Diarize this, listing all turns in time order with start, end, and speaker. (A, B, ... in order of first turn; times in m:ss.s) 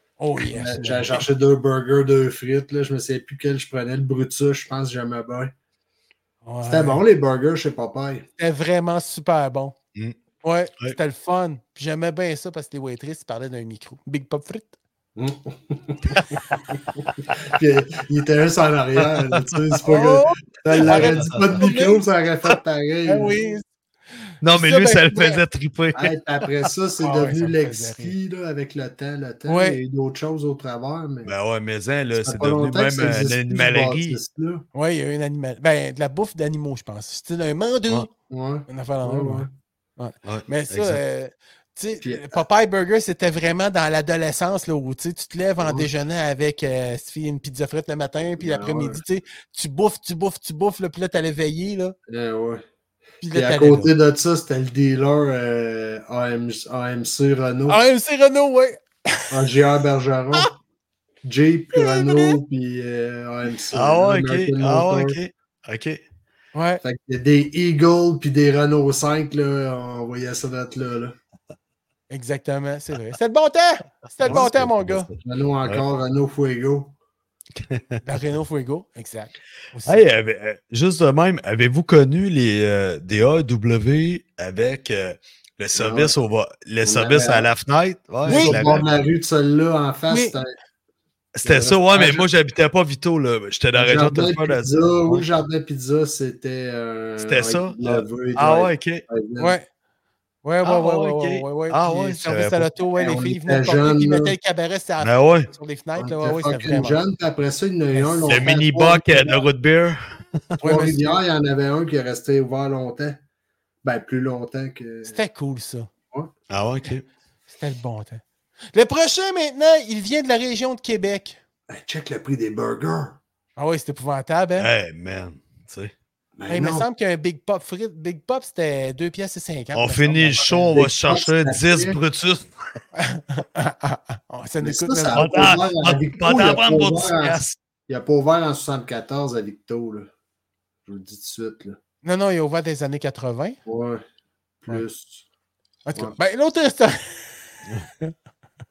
0:00.2-0:01.2 A
0:00.4-0:05.5 B
0:06.4-0:07.0 A
0:06.6-0:08.2 B
0:08.4-0:09.8 A
0:10.4-0:14.8 A
0:15.2-0:23.4 B
0:19.3-0:19.8 C
0:19.8-0:22.0 A
0:20.6-0:21.7 C
0:23.1-0:23.7 A
0:24.4-0:26.1 C
0:24.5-0:25.4 A
0:25.9-0:31.3 B
0:27.0-0:28.1 A
0:29.5-0:29.8 A
0:31.2-0:34.2 C
0:32.2-0:34.6 B
0:34.7-0:38.1 A
0:38.3-0:39.5 B
0:38.7-0:52.0 A
0:40.2-0:41.0 C
0:42.0-0:42.4 B
0:45.6-0:45.9 B
0:48.4-0:49.0 B
0:52.1-0:52.6 B
0:53.2-0:53.9 A
0:53.3-0:57.8 B
0:57.7-0:59.3 A
0:59.3-1:00.5 B
1:01.2-1:05.2 B
1:01.7-1:02.4 A
1:03.7-1:06.0 C
1:06.5-1:06.8 A
1:06.8-1:11.1 B
1:12.1-1:15.1 A
1:14.2-1:15.8 C
1:15.2-1:16.9 B
1:17.6-1:18.0 C
1:18.0-1:20.0 A
1:19.8-1:28.8 C
1:25.7-1:26.1 B
1:26.8-1:27.5 B
1:28.2-1:30.5 B
1:28.2-1:28.8 A
1:30.1-1:30.4 A
1:31.4-1:35.2 C
1:31.4-1:32.2 B
1:33.7-1:39.6 B
1:37.2-1:39.0 C
1:39.4-1:39.7 A
1:40.4-1:47.0 A
1:40.6-1:42.7 C
1:43.0-1:44.3 B
1:45.0-1:45.5 C
1:46.0-1:49.4 B
1:47.9-1:48.4 A
1:48.2-1:50.6 C
1:50.6-1:51.0 A
1:50.6-1:53.2 B
1:53.8-1:55.2 B
1:55.0-1:55.9 A
1:56.5-1:57.0 C
1:57.5-1:58.2 A
1:58.7-2:01.4 A
2:01.7-2:03.2 B
2:03.6-2:04.7 A
2:04.6-2:05.9 C
2:06.4-2:06.9 B
2:06.5-2:10.7 A
2:09.7-2:12.5 C
2:10.7-2:12.0 B
2:12.9-2:15.2 A
2:14.6-2:20.1 B
2:15.1-2:17.6 C
2:20.8-2:21.8 B
2:22.0-2:23.6 A
2:23.6-2:24.0 B
2:24.6-2:25.2 B
2:25.8-2:27.4 A